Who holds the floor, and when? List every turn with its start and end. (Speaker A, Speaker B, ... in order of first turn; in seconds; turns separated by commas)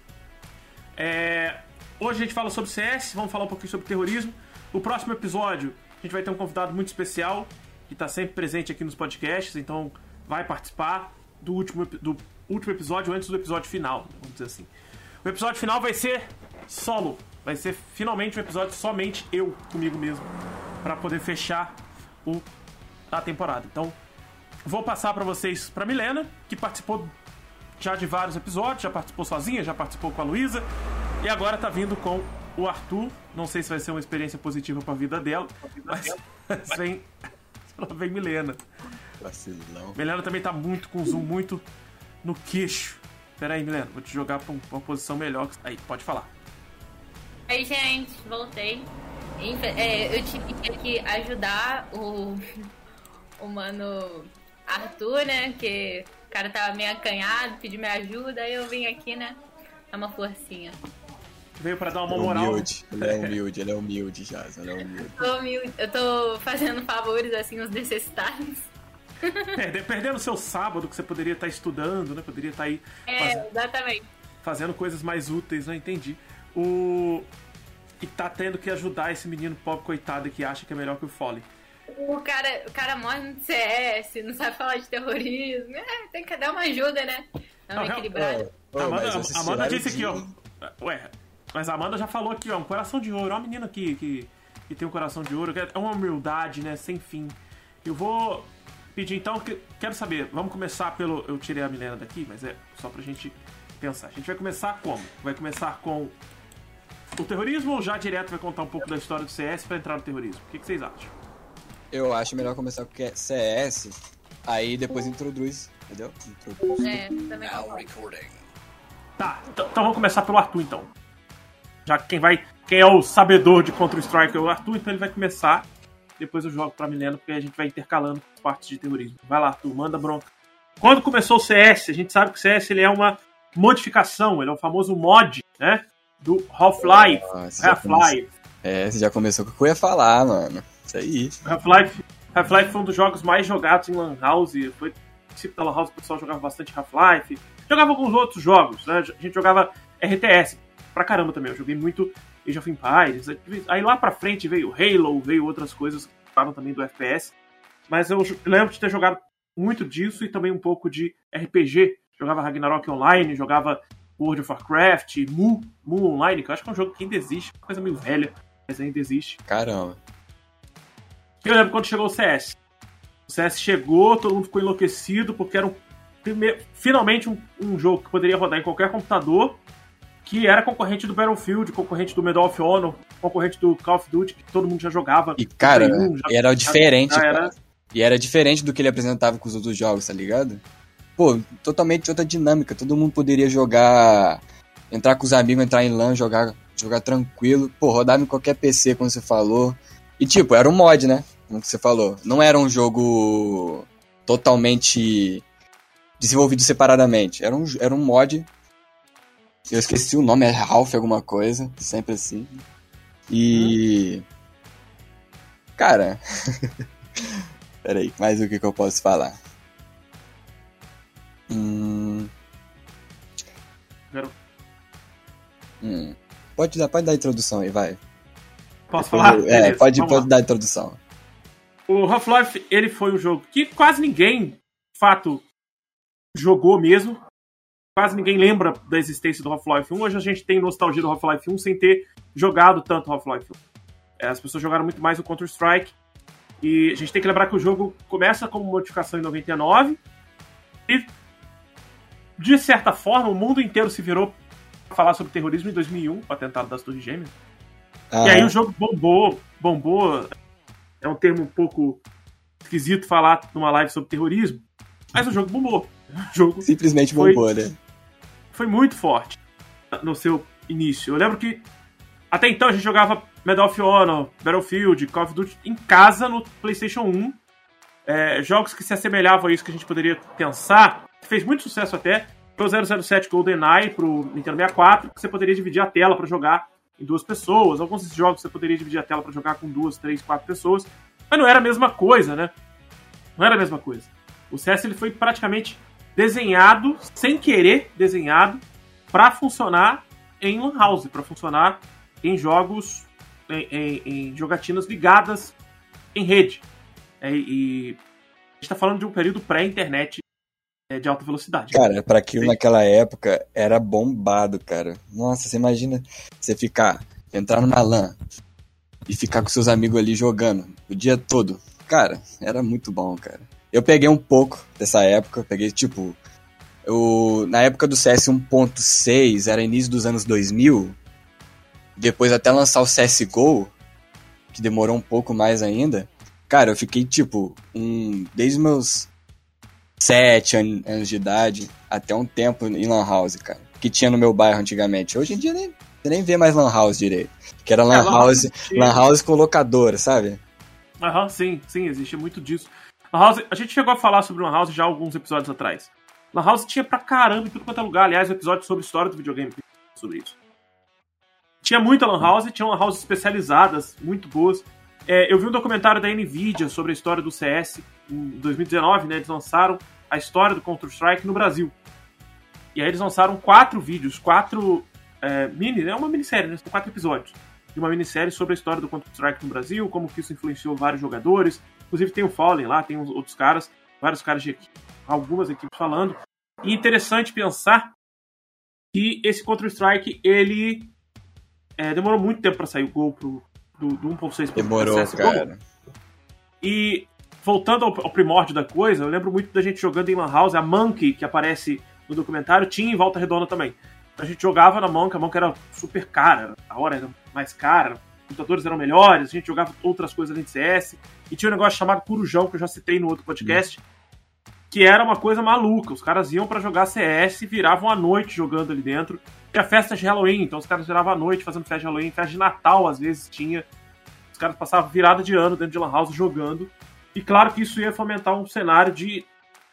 Speaker A: 1.0-14.7, Speaker A: 15.2-20.3, Speaker A: 20.8-22.4, Speaker A: 23.1-23.9, Speaker A: 24.6-27.1, Speaker A: 27.8-30.6, Speaker A: 31.2-37.1, Speaker A: 37.7-38.6, Speaker B: 39.2-40.0, Speaker A: 39.9-41.6, Speaker A: 42.2-46.3, Speaker C: 47.5-52.4, Speaker C: 53.4-59.4, Speaker C: 59.9-60.8, Speaker A: 61.6-63.3, Speaker B: 62.1-65.3, Speaker C: 65.0-68.7, Speaker C: 69.2-69.5, Speaker A: 69.5-73.5, Speaker C: 73.1-74.1, Speaker A: 74.4-77.3, Speaker A: 78.0-81.5, Speaker C: 82.0-88.5, Speaker A: 87.7-88.1, Speaker B: 88.1-90.3, Speaker A: 88.8-106.1, Speaker A: 107.2-111.1, Speaker B: 111.9-118.2, Speaker C: 116.8-118.2, Speaker A: 119.2-120.9, Speaker A: 121.8-125.7, Speaker A: 126.2-130.3, Speaker A: 130.8-138.3, Speaker B: 136.8-141.3, Speaker A: 141.4-157.3, Speaker A: 157.9-169.4, Speaker B: 169.5-170.0, Speaker A: 171.4-172.6, Speaker A: 173.3-179.6, Speaker A: 180.2-187.5, Speaker B: 185.4-190.6, Speaker B: 191.2-205.4, Speaker B: 206.2-208.5, Speaker B: 209.7-212.6, Speaker B: 213.3-214.2, Speaker A: 213.5-213.8, Speaker B: 215.8-219.4, Speaker B: 221.5-222.3, Speaker B: 225.8-228.0, Speaker A: 228.9-230.3, Speaker B: 228.9-231.0, Speaker A: 231.9-235.4, Speaker A: 236.3-237.2, Speaker A: 237.9-243.6, Speaker A: 244.2-245.9, Speaker A: 246.6-250.0, Speaker A: 252.4-254.4, Speaker A: 254.9-257.3, Speaker B: 258.1-258.5, Speaker A: 258.2-260.3, Speaker A: 261.0-262.0, Speaker A: 262.6-267.4, Speaker B: 266.6-267.8, Speaker A: 268.5-269.4, Speaker A: 269.9-271.6, Speaker A: 272.3-277.4, Speaker A: 278.1-292.5, Speaker A: 293.4-305.6, Speaker A: 306.1-306.6, Speaker A: 307.2-308.0, Speaker A: 308.6-310.2, Speaker A: 310.9-312.6, Speaker B: 311.7-318.1, Speaker B: 319.1-326.2, Speaker B: 326.8-330.9, Speaker B: 332.0-333.7, Speaker B: 334.5-339.1, Speaker B: 340.0-350.4, Speaker A: 347.9-349.1, Speaker A: 351.0-360.4, Speaker A: 361.6-371.7, Speaker A: 372.7-387.9, Speaker A: 388.9-390.9, Speaker A: 391.8-395.4, Speaker B: 394.6-395.6, Speaker A: 396.6-413.8, Speaker A: 414.7-423.7, Speaker A: 424.3-429.3